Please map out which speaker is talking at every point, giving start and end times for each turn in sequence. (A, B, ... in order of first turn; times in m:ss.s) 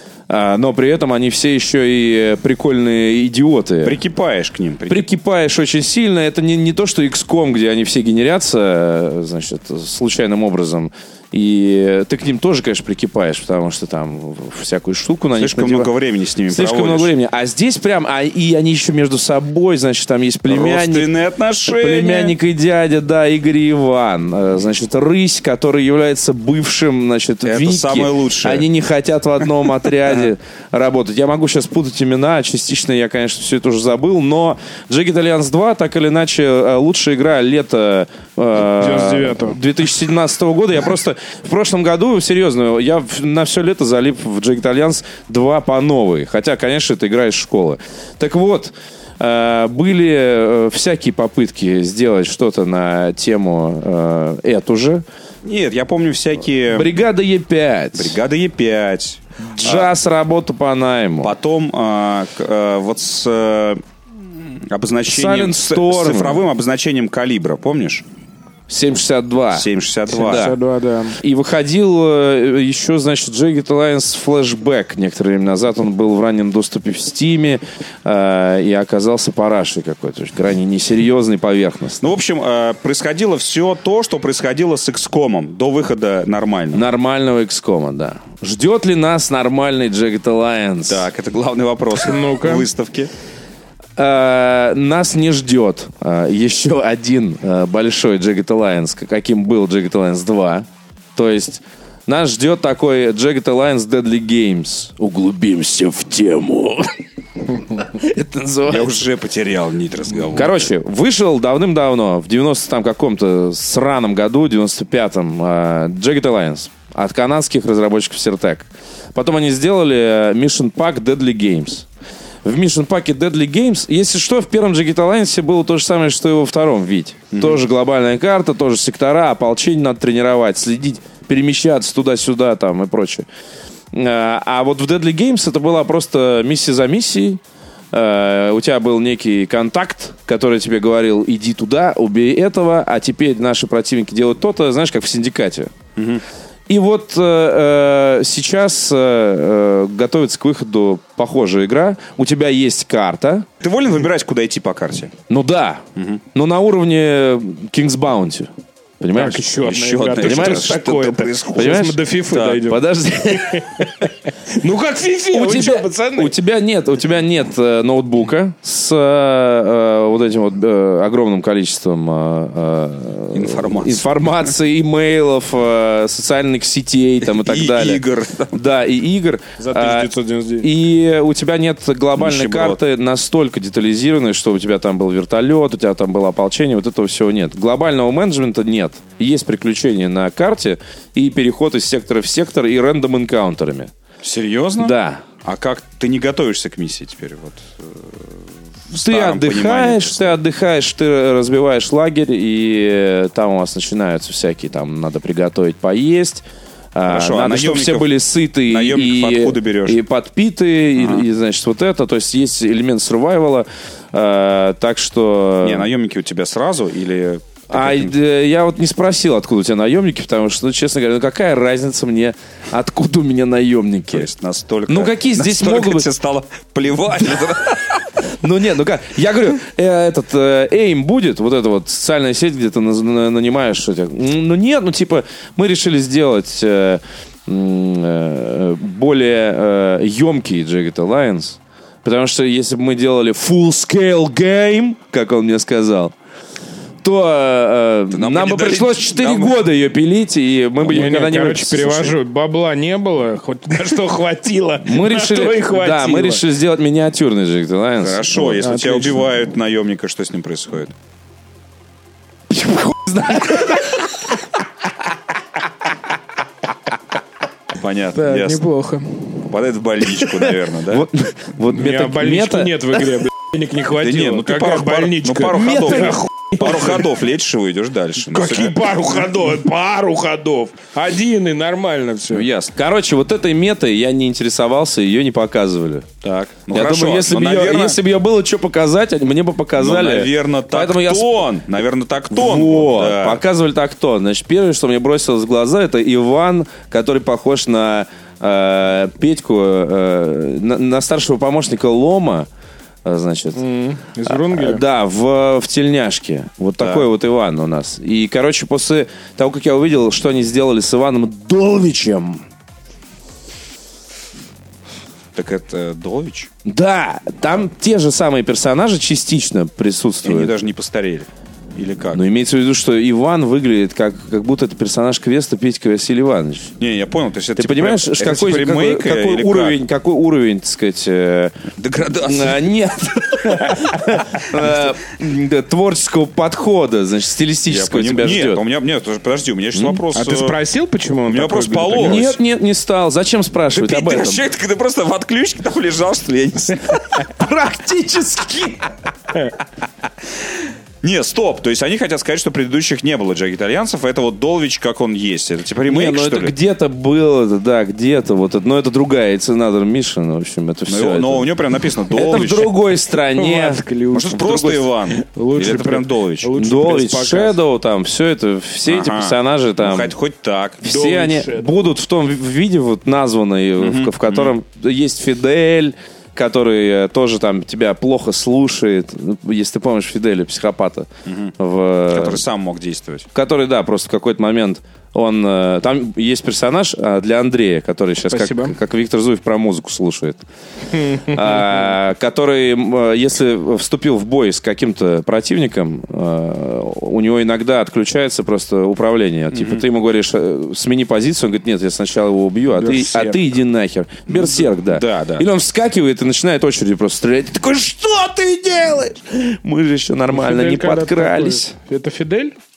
0:00.3-0:04.0 A
0:03.8-0:05.0 B
0:04.9-0:15.9 A
0:15.4-0:17.1 B
0:16.5-0:21.1 A
0:20.5-0:22.4 B
0:21.7-0:55.0 A
0:27.4-0:28.7 B
0:38.8-0:39.6 C
0:55.4-0:57.0 B
0:56.7-0:58.2 A
0:57.9-0:59.9 B
0:59.5-1:01.3 A
1:01.2-1:03.8 B
1:04.6-1:08.0 B
1:05.1-1:06.4 A
1:08.7-1:10.6 A
1:09.5-1:10.5 B
1:10.1-1:11.2 C
1:11.2-1:22.0 A
1:22.0-1:26.9 B
1:26.7-1:31.0 A
1:30.9-1:33.1 B
1:32.0-1:32.7 C
1:34.0-1:48.9 A
1:48.7-1:50.5 B
1:50.3-2:01.9 A
2:02.4-2:13.3 A
2:07.3-2:07.6 B
2:13.9-2:17.4 A
2:17.9-2:25.7 A
2:26.0-2:26.2 B
2:26.7-2:33.5 A
2:33.6-2:35.1 B
2:35.3-2:35.8 A
2:36.0-2:36.2 B
2:36.3-2:39.5 A
2:39.1-2:46.3 C
2:39.6-2:42.6 B
2:40.2-2:40.9 A
2:41.5-2:44.1 A
2:45.3-3:00.1 A
2:53.3-2:54.2 B
2:57.3-2:58.6 B
2:59.6-3:00.7 C
3:00.6-3:13.9 A
3:02.2-3:02.8 B
3:14.2-3:18.3 B
3:14.8-3:15.2 A
3:18.9-3:20.4 B
3:18.9-3:26.4 A
3:27.0-3:35.9 A
3:27.1-3:28.1 B
3:28.7-3:30.0 B
3:31.0-3:31.2 B
3:35.6-3:38.1 B
3:37.7-3:44.3 A
3:44.1-3:48.0 B
3:44.9-3:46.1 A
3:48.4-4:06.1 A
4:07.0-4:12.2 A
4:08.1-4:09.6 B
4:10.8-4:16.4 C
4:14.8-4:18.6 A
4:18.0-4:20.9 B
4:18.6-4:19.3 C
4:22.5-4:24.4 A
4:27.7-4:28.6 B
4:28.2-4:29.5 C
4:29.5-4:31.1 B
4:30.3-4:32.8 A
4:31.7-4:37.1 C
4:34.0-4:38.9 B
4:35.6-4:36.2 A
4:38.2-4:42.5 C
4:42.3-4:42.7 B
4:42.7-4:46.1 A
4:46.2-4:48.0 B
4:46.7-4:51.4 A
4:49.8-4:53.4 B
4:52.3-5:02.5 A
5:03.0-5:03.6 A
5:03.6-5:04.8 C
5:04.2-5:12.4 A
5:06.8-5:07.1 B
5:15.4-5:16.5 B
5:16.6-5:20.5 A
5:20.2-5:22.2 B
5:22.1-5:26.7 A
5:26.8-5:29.8 B
5:27.6-5:31.6 A
5:31.8-5:32.6 B
5:32.1-5:38.6 A
5:37.7-5:40.6 B
5:39.8-5:40.0 A
5:40.1-5:42.3 C
5:41.3-5:42.3 B
5:42.0-5:44.4 A
5:43.7-5:47.2 B
5:47.2-5:48.9 A
5:51.0-5:56.5 B
5:55.9-6:01.5 A
6:00.9-6:02.7 B
6:02.1-6:03.8 A
6:03.4-6:07.6 C
6:04.1-6:06.5 B
6:06.6-6:10.1 A
6:08.9-6:10.8 B
6:10.8-6:21.1 A
6:10.8-6:11.7 C
6:13.8-6:14.5 B
6:21.3-6:21.5 B
6:21.6-6:22.4 A
6:22.1-6:23.3 B
6:23.4-6:30.4 A
6:28.3-6:28.8 C
6:30.9-6:31.4 C
6:31.1-6:51.7 A
6:39.5-6:39.8 B
6:42.7-6:43.4 C
6:44.3-6:45.4 B
6:50.3-6:52.6 C